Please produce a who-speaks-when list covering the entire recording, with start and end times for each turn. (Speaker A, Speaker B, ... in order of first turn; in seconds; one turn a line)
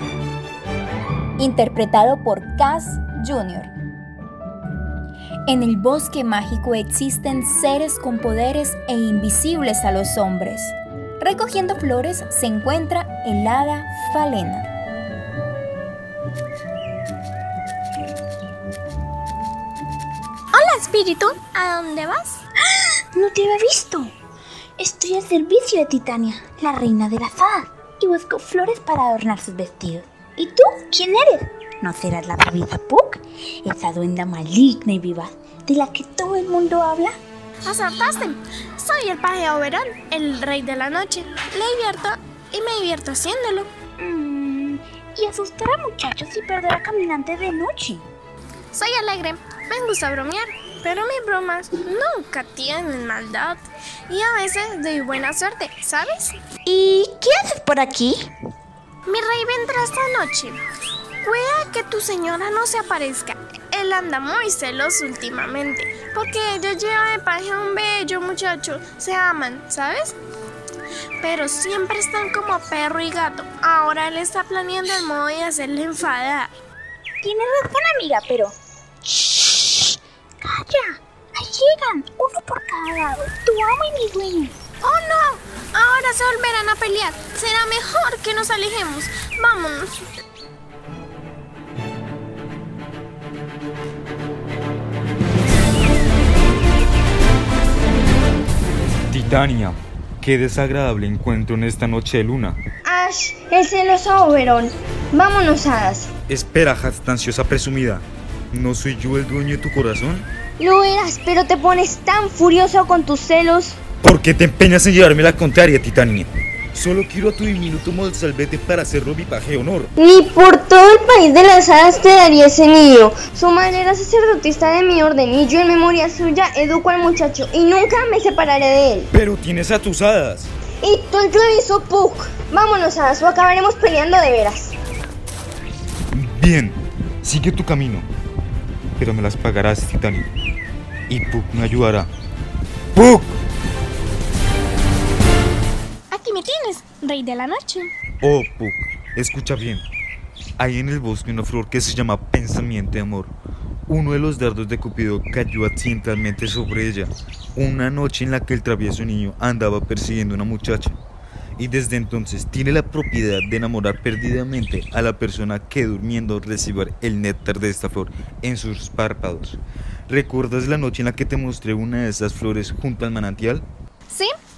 Speaker A: 1.4-3.7
Speaker A: 5.5-14.7
Speaker B: 20.5-22.4
Speaker C: 23.1-24.1
Speaker C: 24.8-37.1
Speaker B: 37.6-43.7
Speaker C: 44.0-48.0
Speaker B: 48.7-56.4
Speaker C: 56.7-58.2
Speaker B: 59.1-60.6
Speaker B: 61.2-70.2
Speaker B: 71.2-76.5
Speaker C: 77.2-78.5
Speaker C: 79.0-79.6
Speaker C: 80.4-84.5
Speaker B: 84.8-89.9
Speaker D: 99.1-102.6
Speaker E: 102.8-106.1
Speaker D: 106.3-110.3
Speaker E: 110.6-113.8
Speaker D: 114.0-119.9
Speaker E: 120.0-129.1
Speaker D: 129.1-130.5
Speaker E: 130.8-134.8
Speaker D: 136.1-138.1
Speaker D: 139.0-140.3
Speaker D: 141.1-142.1
Speaker D: 142.9-143.4
Speaker B: 146.1-147.9
Speaker D: 148.2-149.9
Speaker D: 150.6-153.3
Speaker D: 153.9-161.0
Speaker D: 161.6-173.7